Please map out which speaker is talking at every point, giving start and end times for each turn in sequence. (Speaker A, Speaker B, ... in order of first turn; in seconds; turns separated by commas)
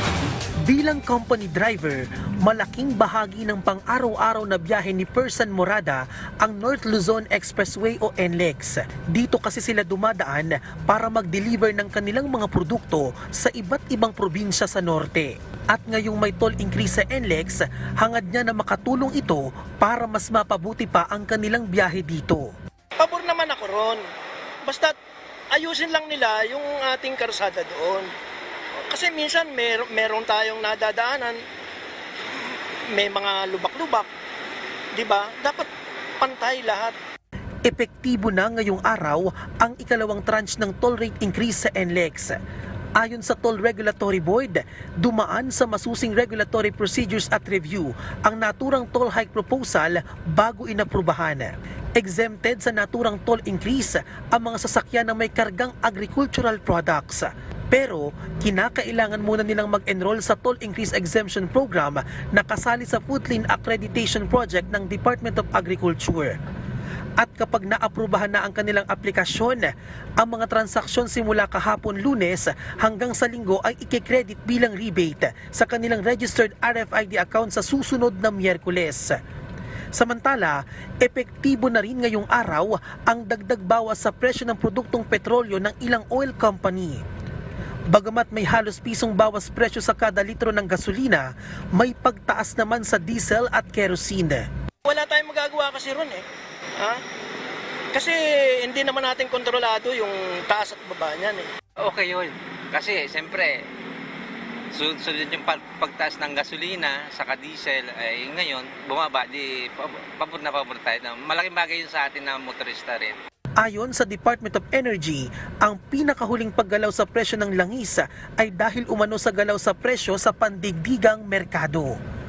Speaker A: 0.6-22.5, Speaker B: 23.0-24.0, Speaker B: 24.6-24.9, Speaker B: 25.5-28.1, Speaker B: 28.9-31.4, Speaker B: 32.9-34.1, Speaker B: 34.9-35.7, Speaker B: 36.2-36.9, Speaker A: 37.6-42.4, Speaker A: 43.0-66.4, Speaker A: 67.2-79.2, Speaker A: 79.9-87.0, Speaker A: 87.9-94.5, Speaker B: 94.8-96.2, Speaker B: 97.9-101.5, Speaker C: 101.8-103.7, Speaker C: 104.7-113.2, Speaker A: 113.6-122.0